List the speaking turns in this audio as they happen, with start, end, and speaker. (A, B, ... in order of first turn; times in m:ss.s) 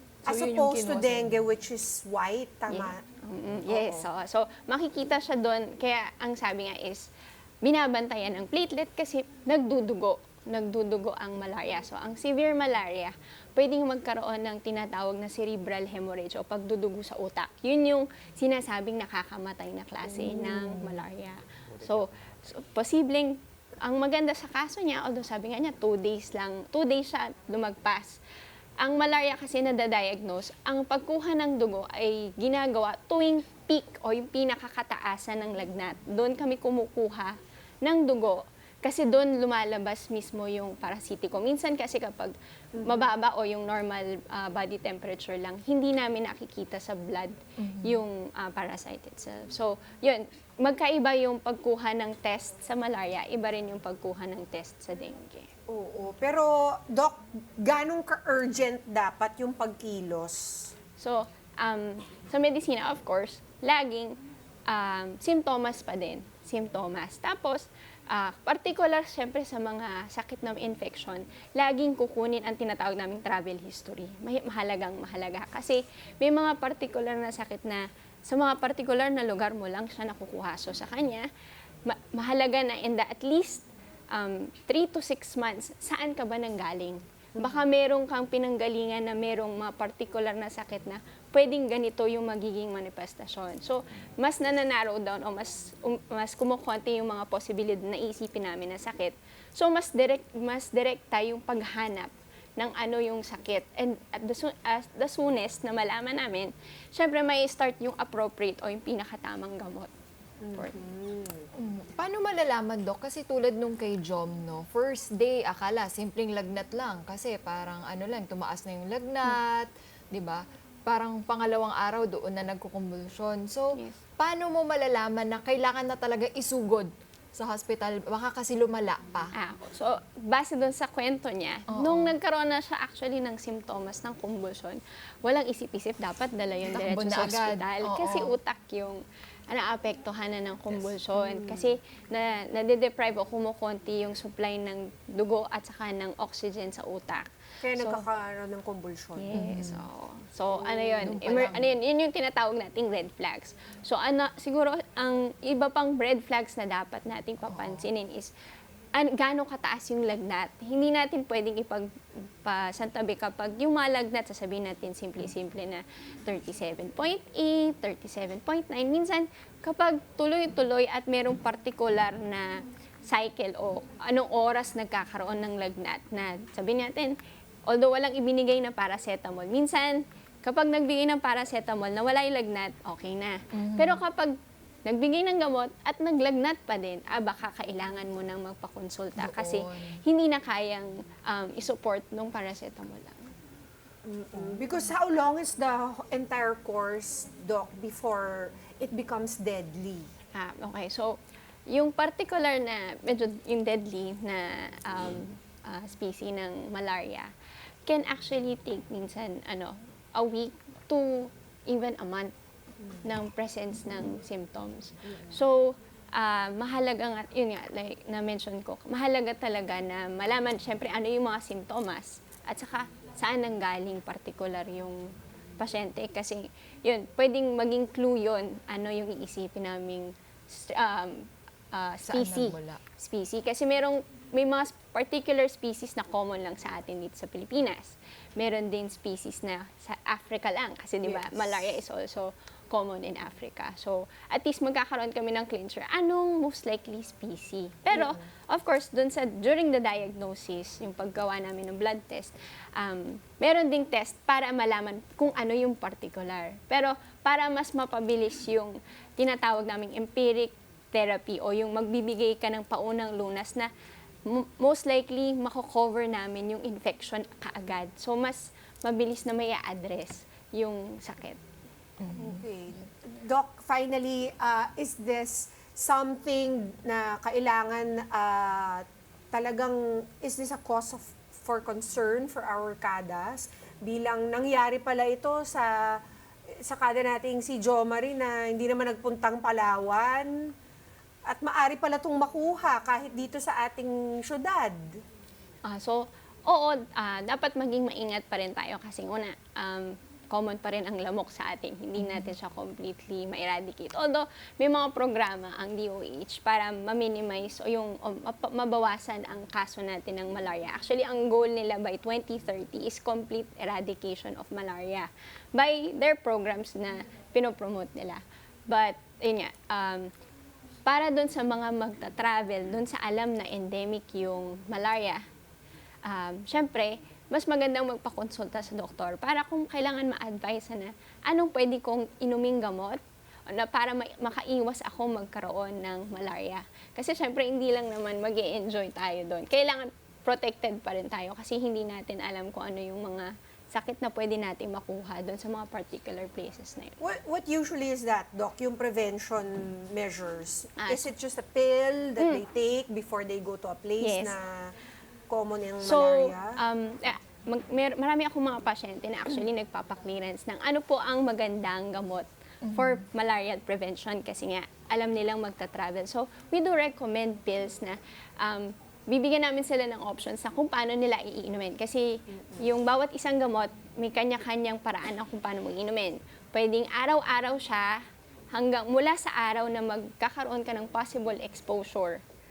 0:00.2-0:03.0 A
0:00.3-0:01.3 B
0:02.7-0:07.1 C
0:03.7-0:04.0 A
0:07.6-0:28.2 C
0:20.1-0:21.0 B
0:28.8-0:55.5 C
0:42.8-0:43.1 A
0:47.6-0:48.0 B
0:55.7-1:00.7 A
1:01.0-1:04.2 C
1:04.7-1:21.2 C
1:21.9-1:49.9 C
1:27.4-1:27.6 A
1:50.4-1:51.4 A
1:51.6-2:09.3 B
2:09.3-2:28.0 C
2:11.7-2:12.2 B
2:16.7-2:18.4 B
2:21.2-2:21.7 A
2:27.6-2:29.4 A
2:29.2-2:38.3 C
2:29.3-2:29.8 B
2:30.6-2:31.4 A
2:31.0-2:31.7 B
2:37.5-2:37.9 B
2:39.0-2:41.9 C
2:42.4-2:52.6 C
2:53.1-3:04.3 C
3:03.5-3:04.0 B
3:04.8-3:13.2 C
3:09.2-3:10.0 B
3:14.0-3:20.1 A
3:20.3-3:21.2 C
3:21.7-3:27.3 C
3:27.8-3:32.3 C
3:33.0-4:23.7 C
3:52.0-3:52.8 B
4:01.0-4:01.7 A
4:07.9-4:08.2 A
4:24.3-4:31.4 C
4:32.0-4:32.4 B
4:32.2-4:45.7 A
4:46.6-4:50.3 A
4:51.2-4:54.9 A
4:55.6-5:20.1 C
5:02.0-5:02.3 B
5:20.8-5:25.2 C
5:26.0-5:47.0 C
5:47.0-5:54.7 A
5:50.8-5:51.1 C
5:54.0-5:54.3 C
5:55.3-5:56.6 A
5:55.8-6:18.0 C
6:02.6-6:03.0 B
6:18.5-6:22.2 C